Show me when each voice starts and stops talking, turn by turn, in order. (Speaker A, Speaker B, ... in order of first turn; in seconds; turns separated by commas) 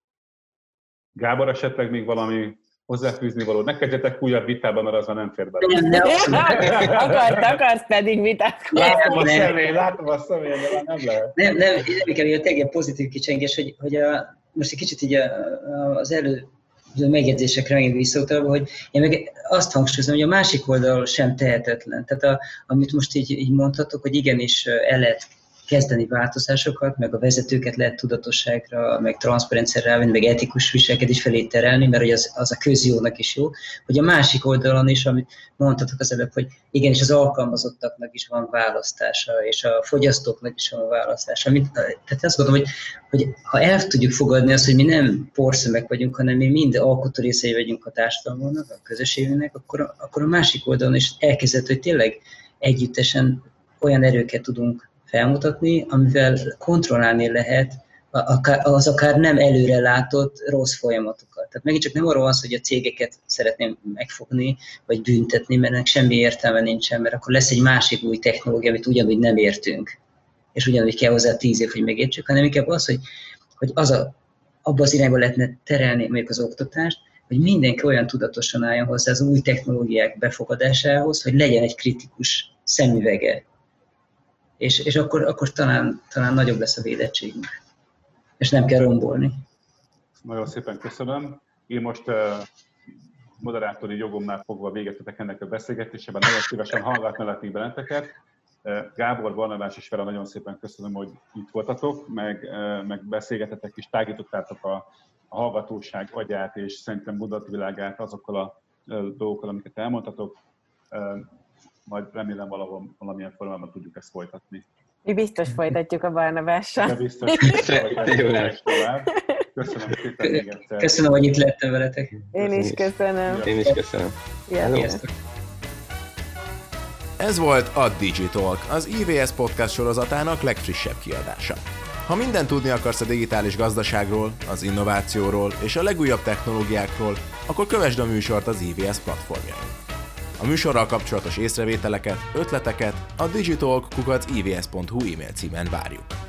Speaker A: 1.1-7.6, Speaker B: 5.6-6.9, Speaker C: 5.9-9.3, Speaker B: 8.7-9.5, Speaker A: 8.7-11.4, Speaker B: 11.3-69.9, Speaker B: 70.5-73.0, Speaker B: 73.6-83.4, Speaker B: 84.6-87.5, Speaker B: 88.4-89.3, Speaker A: 90.2-92.5, Speaker A: 93.4-98.1, Speaker A: 98.6-110.4, Speaker A: 110.9-111.3, Speaker A: 111.9-114.7, Speaker C: 115.0-117.6, Speaker A: 116.8-121.0, Speaker D: 117.4-118.6, Speaker B: 120.2-122.2, Speaker C: 122.3-123.5, Speaker A: 122.4-123.7, Speaker D: 122.5-122.8, Speaker D: 123.4-124.9, Speaker C: 124.5-125.0, Speaker B: 124.7-125.0, Speaker E: 127.2-139.7, Speaker E: 140.4-146.2